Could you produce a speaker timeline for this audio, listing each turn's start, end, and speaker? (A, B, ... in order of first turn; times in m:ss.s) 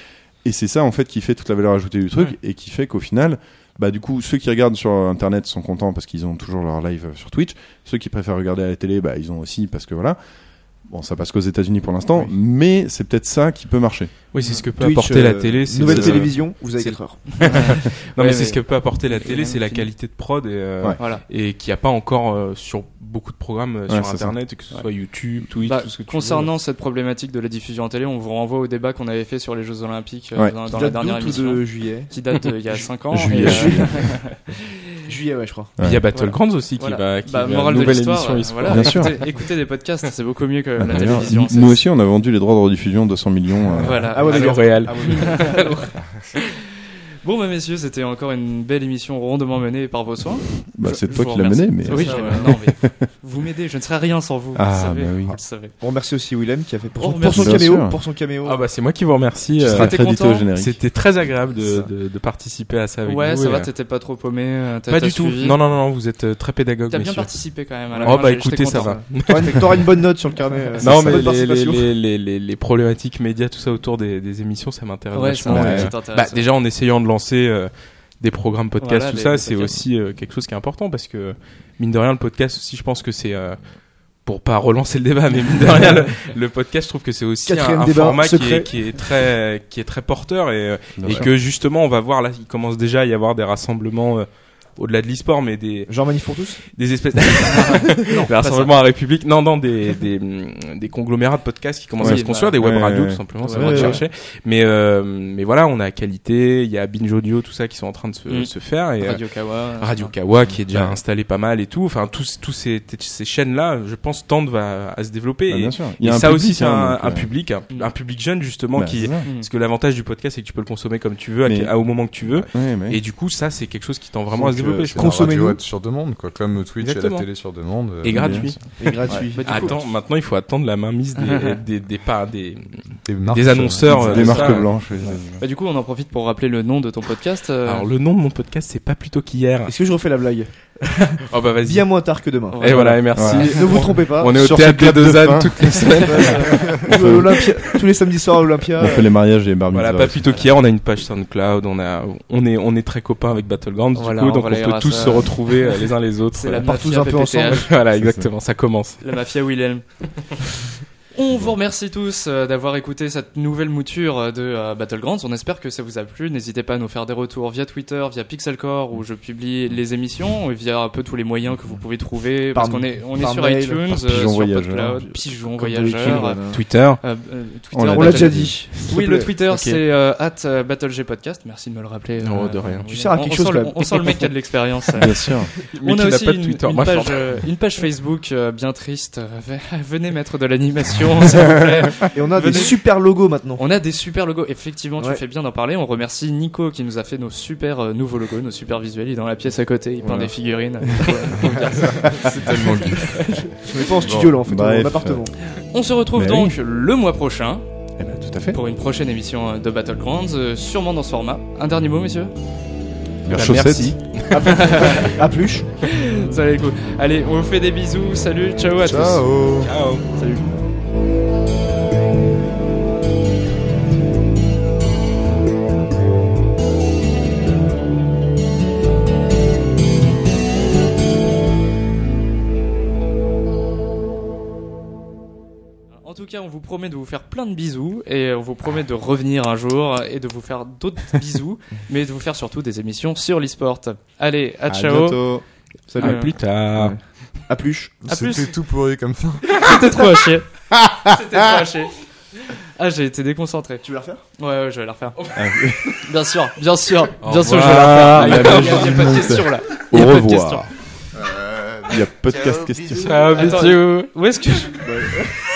0:00.4-0:10.2 A
0:10.9-0:14.1 A
0:14.3-0:26.5 B
0:14.8-0:17.8 C
0:15.8-0:16.3 A
0:17.4-0:19.9 D
0:21.0-0:21.2 D
0:23.9-0:24.4 A
0:25.6-0:34.5 D
0:30.7-0:32.2 C
0:33.1-0:34.1 A
0:33.2-0:34.2 C
0:35.1-0:35.7 C
0:35.8-0:36.0 A
0:35.8-0:39.3 B
0:36.1-0:41.8 D
0:38.7-0:39.1 A
0:40.8-0:44.0 A
0:43.8-0:46.6 D
0:44.1-0:45.8 B
0:44.1-0:45.9 C
0:47.2-0:55.7 D
0:50.7-0:53.0 A
0:51.9-0:52.5 B
0:52.0-0:52.4 C
0:54.6-0:55.4 A
0:55.8-0:58.6 C
0:57.0-0:57.6 D
0:57.3-0:58.0 A
0:58.4-1:00.0 B
0:59.6-1:00.8 A
0:59.7-1:00.5 D
1:00.5-1:03.7 B
1:01.6-1:01.9 C
1:03.1-1:05.6 D
1:04.9-1:07.3 B
1:06.9-1:09.0 D
1:08.0-1:11.9 C
1:08.0-1:10.0 B
1:10.8-1:23.6 B
1:10.8-1:11.2 A
1:15.1-1:16.5 D
1:15.5-1:15.9 A
1:18.8-1:19.8 D
1:24.2-1:36.0 B
1:27.4-1:28.7 C
1:31.0-1:31.3 A
1:35.9-1:36.6 C
1:36.7-2:05.3 B
1:37.4-1:38.7 D
1:42.0-1:42.6 D
1:42.0-1:44.0 A
1:43.4-1:44.0 C
1:43.4-1:44.0 D
1:48.3-1:50.2 D
1:50.7-1:51.0 A
1:55.5-1:57.3 A
1:58.8-1:59.2 A
1:59.2-1:59.5 D
2:01.4-2:01.7 A
2:02.5-2:03.0 A
2:04.4-2:05.6 C
2:04.9-2:09.3 E
2:06.8-2:07.3 B
2:08.0-2:15.1 B
2:08.1-2:08.6 A
2:08.8-2:09.8 C
2:09.3-2:09.9 D
2:11.2-2:11.6 D
2:13.0-2:14.7 E
2:13.9-2:15.4 A
2:15.4-2:17.9 D
2:17.6-2:19.8 B
2:19.7-2:24.6 C
2:20.8-2:27.8 B
2:22.5-2:23.9 D
2:23.2-2:27.4 A
2:25.8-2:26.6 D
2:26.1-2:29.1 C
2:28.8-2:30.3 A
2:29.7-2:39.0 B
2:34.0-2:35.8 D
2:36.3-2:37.7 D
2:36.5-2:37.7 C
2:38.0-2:38.3 A
2:39.0-2:40.2 D
2:41.1-3:12.8 D
2:52.5-2:53.9 C
2:53.9-2:55.1 A
2:54.9-2:56.6 C
2:56.1-2:57.0 B
2:57.7-2:58.8 A
2:57.9-2:59.3 C
3:02.2-3:02.9 B
3:02.9-3:04.3 C
3:05.0-3:05.5 A
3:05.7-3:07.5 B
3:12.1-3:13.6 C
3:13.6-3:23.5 D
3:20.0-3:20.3 A
3:22.0-3:23.4 E
3:23.6-3:25.3 C
3:24.0-3:24.4 E
3:24.4-3:25.3 A
3:25.6-3:27.6 D
3:26.2-3:26.6 A
3:28.0-3:28.6 A
3:28.5-3:32.3 D
3:33.2-3:34.2 A
3:33.3-3:35.1 B
3:34.3-3:35.7 C
3:34.4-3:35.1 D
3:35.9-3:39.3 D
3:38.8-3:39.7 E
3:39.6-3:40.0 B
3:40.2-3:40.5 D
3:56.0-4:05.2 D
4:04.7-4:05.4 A
4:05.9-4:08.0 C
4:06.0-4:07.2 B
4:06.0-4:06.4 D
4:08.0-4:09.8 E
4:08.1-4:08.6 D
4:09.4-4:10.5 D
4:10.8-4:11.1 A
4:11.0-4:13.8 D
4:13.8-4:14.2 C
4:14.4-4:15.3 D
4:15.3-4:16.0 A
4:15.8-4:20.7 D
4:17.2-4:19.2 B
4:17.6-4:20.7 A
4:21.7-4:23.3 A
4:22.9-4:24.1 B
4:23.2-4:24.9 D
4:24.8-4:25.3 C